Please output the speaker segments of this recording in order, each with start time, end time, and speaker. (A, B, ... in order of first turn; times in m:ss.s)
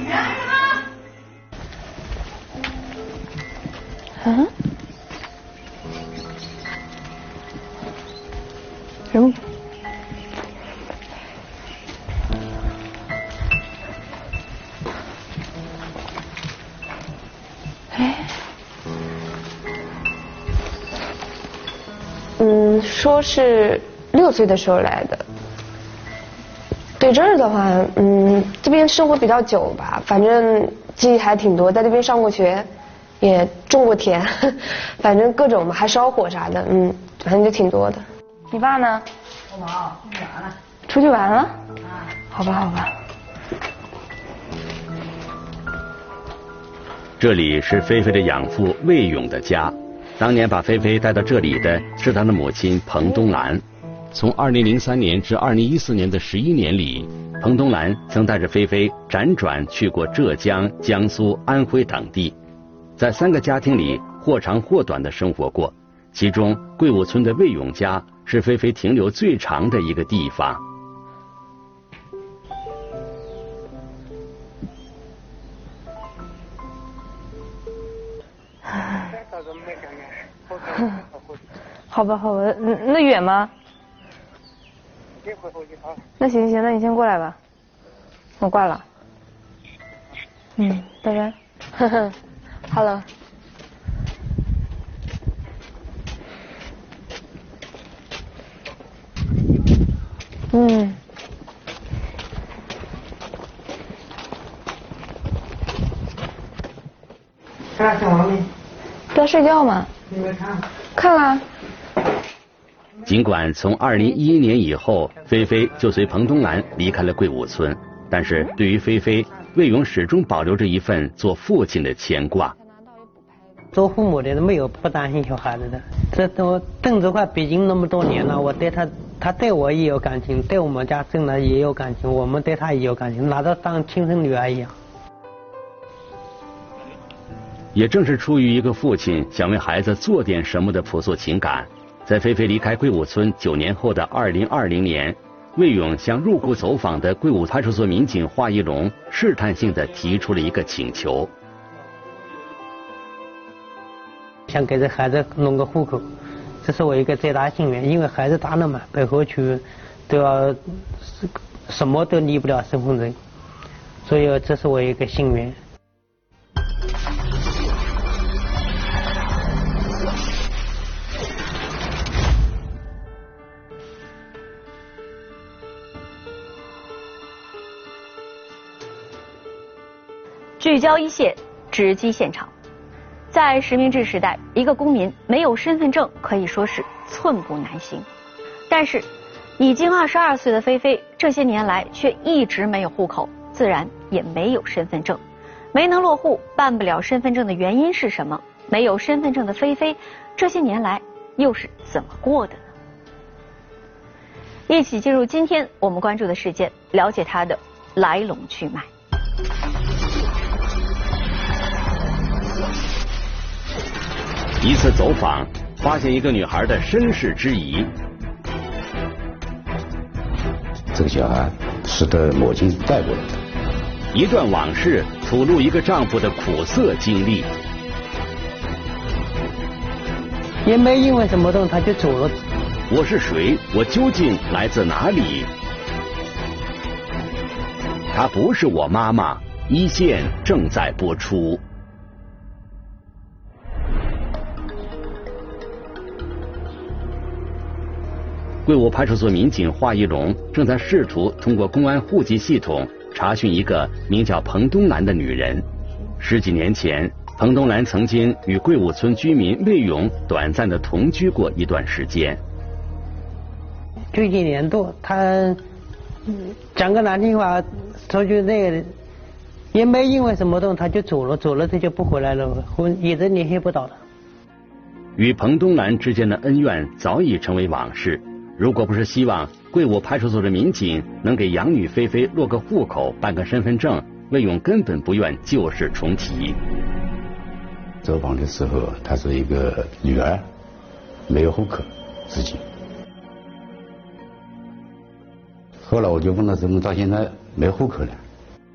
0:04.2-0:04.5 A
0:17.9-0:18.3 A
0:22.4-0:25.2 A
0:27.0-0:32.7 A
0:33.2-0:39.0 A
0:39.6-0:40.0 A
0:40.9-0:41.6 A
0:42.3-0:42.9 A
0:47.2-1:02.3 B
1:03.0-1:10.6 B
1:20.6-1:20.9 A
1:21.9-1:23.5 A
1:26.2-1:27.4 A
1:28.4-1:28.8 A
1:30.6-1:32.2 A
1:32.7-1:33.0 A
1:40.5-1:41.0 A
1:47.8-1:48.4 A
1:49.1-1:50.3 A
1:50.9-1:51.4 A
1:53.0-2:02.5 B
2:03.7-2:14.7 C
2:17.7-2:31.3 B
2:34.5-2:36.1 C
2:36.6-2:43.2 C
2:44.0-2:45.6 C
3:00.6-3:02.5 D
3:03.3-3:08.0 D
3:08.7-3:09.1 D
3:09.6-3:15.2 D
3:15.7-3:22.6 D
3:24.7-3:28.9 D
3:34.6-3:37.9 B
3:40.9-3:43.4 E
3:44.1-3:47.5 B
3:50.6-3:52.3 C
3:52.9-3:55.5 B
3:58.1-4:01.6 B
4:08.6-4:15.6 B
4:16.2-4:22.4 B
4:24.1-4:25.6 C
4:26.3-4:28.9 C
4:29.7-4:34.0 C
4:35.2-4:46.6 B
4:48.0-4:50.4 E
4:51.3-4:52.6 E
4:55.8-4:58.2 E